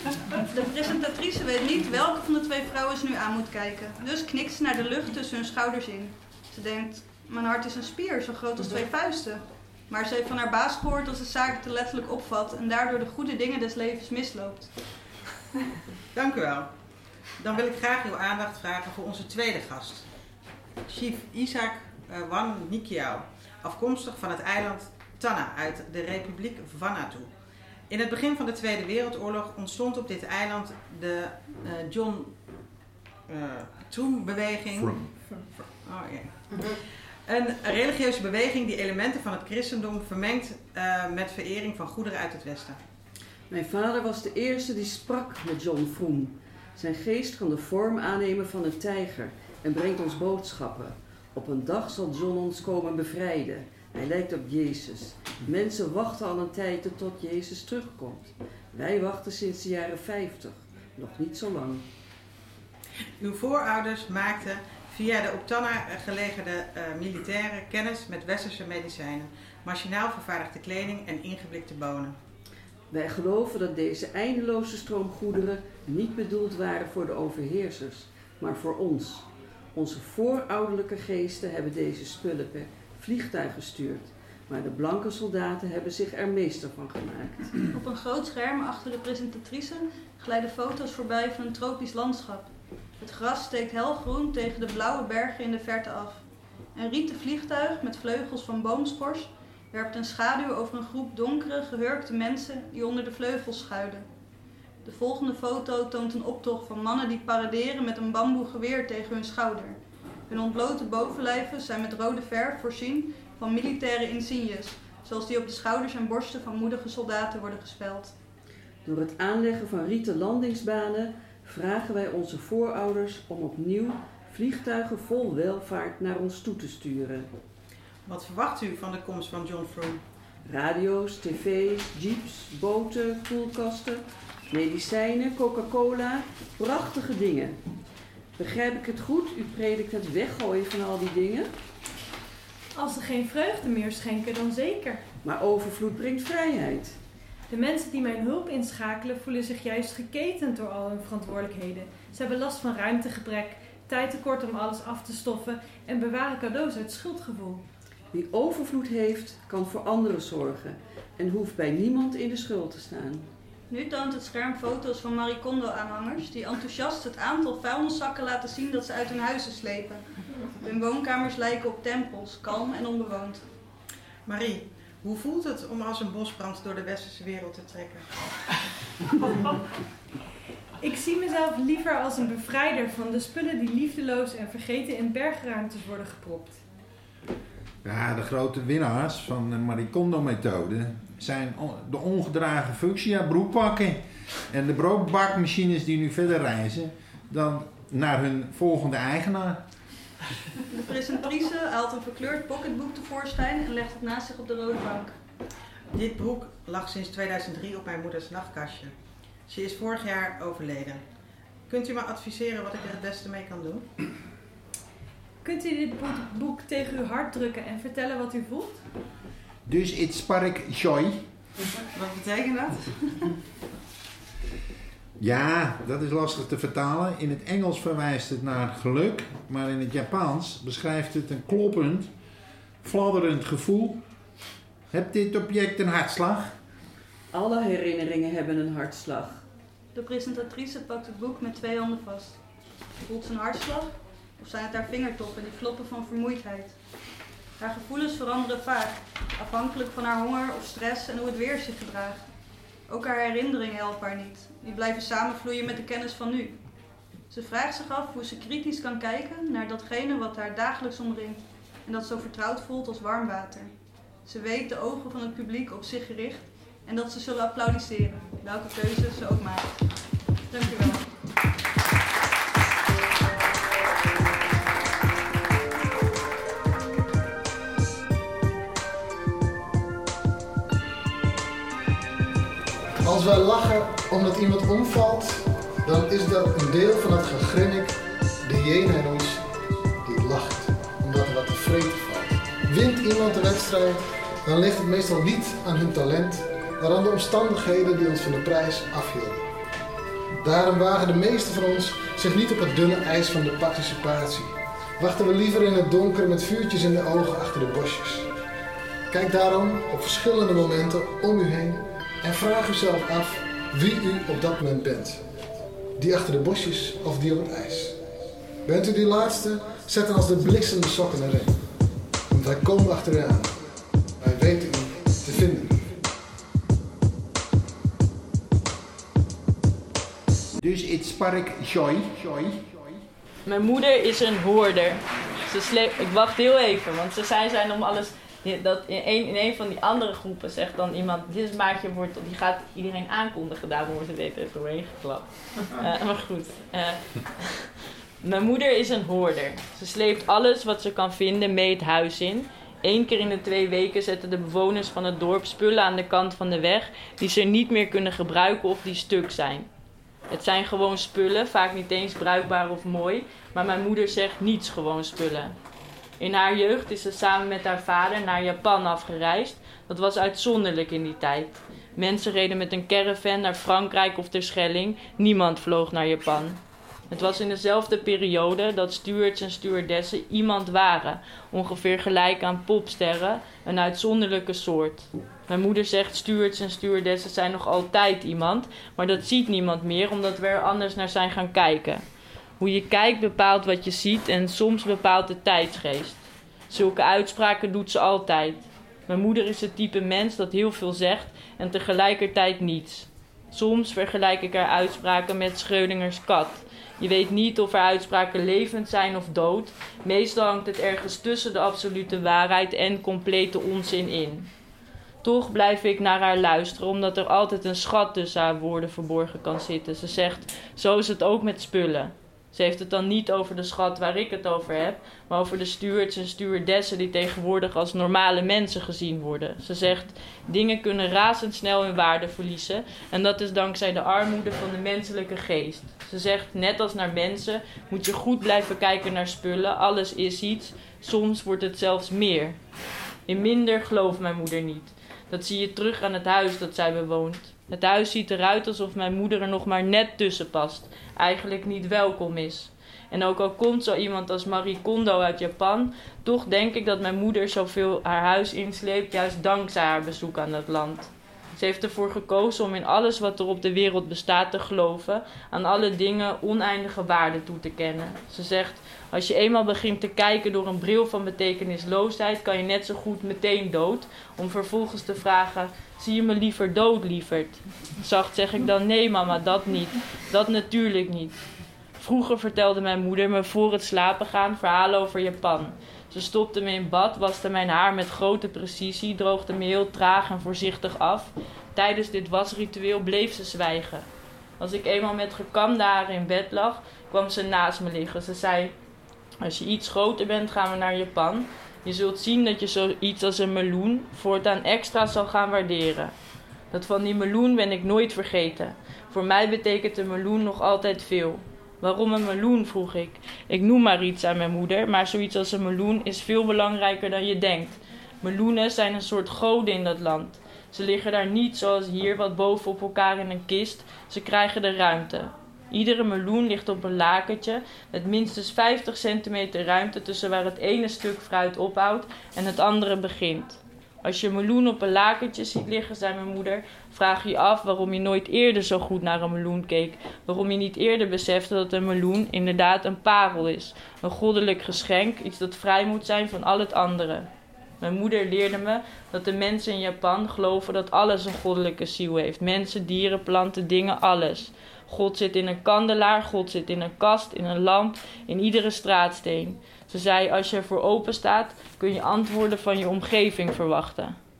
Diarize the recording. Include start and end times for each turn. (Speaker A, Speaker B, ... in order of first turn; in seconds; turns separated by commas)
Speaker A: 0.5-14.7, Speaker B: 16.1-16.7, Speaker B: 17.4-20.0, Speaker B: 20.8-27.3, Speaker B: 27.9-32.3, Speaker B: 33.3-36.8, Speaker B: 37.3-42.8, Speaker C: 43.5-61.9, Speaker B: 63.2-72.2, Speaker C: 72.9-87.5, Speaker A: 87.7-96.2, Speaker A: 96.7-104.0, Speaker A: 104.8-109.8, Speaker A: 110.3-118.1, Speaker C: 118.8-127.3, Speaker B: 128.1-130.0, Speaker C: 130.5-137.6, Speaker C: 138.4-141.5, Speaker D: 142.7-145.0, Speaker C: 145.2-146.9, Speaker D: 147.5-157.6, Speaker C: 158.1-163.3, Speaker A: 163.7-170.0, Speaker A: 170.6-173.4, Speaker B: 174.2-178.1, Speaker D: 180.8-186.6, Speaker E: 187.8-199.6, Speaker A: 200.7-205.2, Speaker B: 205.9-208.9, Speaker B: 209.5-211.0, Speaker B: 211.7-213.9, Speaker D: 215.4-218.8, Speaker E: 219.7-221.2, Speaker B: 221.9-223.3, Speaker E: 225.2-232.1, Speaker E: 232.8-234.0, Speaker E: 234.9-236.6, Speaker C: 237.3-239.4, Speaker A: 239.9-242.4, Speaker A: 243.0-247.1, Speaker A: 247.6-252.3, Speaker A: 252.9-256.6, Speaker A: 257.3-263.7, Speaker A: 264.2-271.1, Speaker F: 283.0-289.5, Speaker F: 290.0-299.5, Speaker F: 300.4-308.3, Speaker F: 309.1-315.2, Speaker F: 316.0-318.0, Speaker F: 318.6-321.6, Speaker F: 322.3-323.6, Speaker F: 324.2-325.8, Speaker E: 330.6-333.0, Speaker G: 333.4-347.7, Speaker G: 348.2-359.7, Speaker G: 360.3-365.5, Speaker G: 366.2-392.0, Speaker G: 392.6-414.5, Speaker G: 415.2-442.6, Speaker G: 443.3-481.4, Speaker G: 482.0-494.1, Speaker G: 494.6-498.7, Speaker G: 499.4-506.1, Speaker G: 506.7-547.3, Speaker G: 547.8-564.1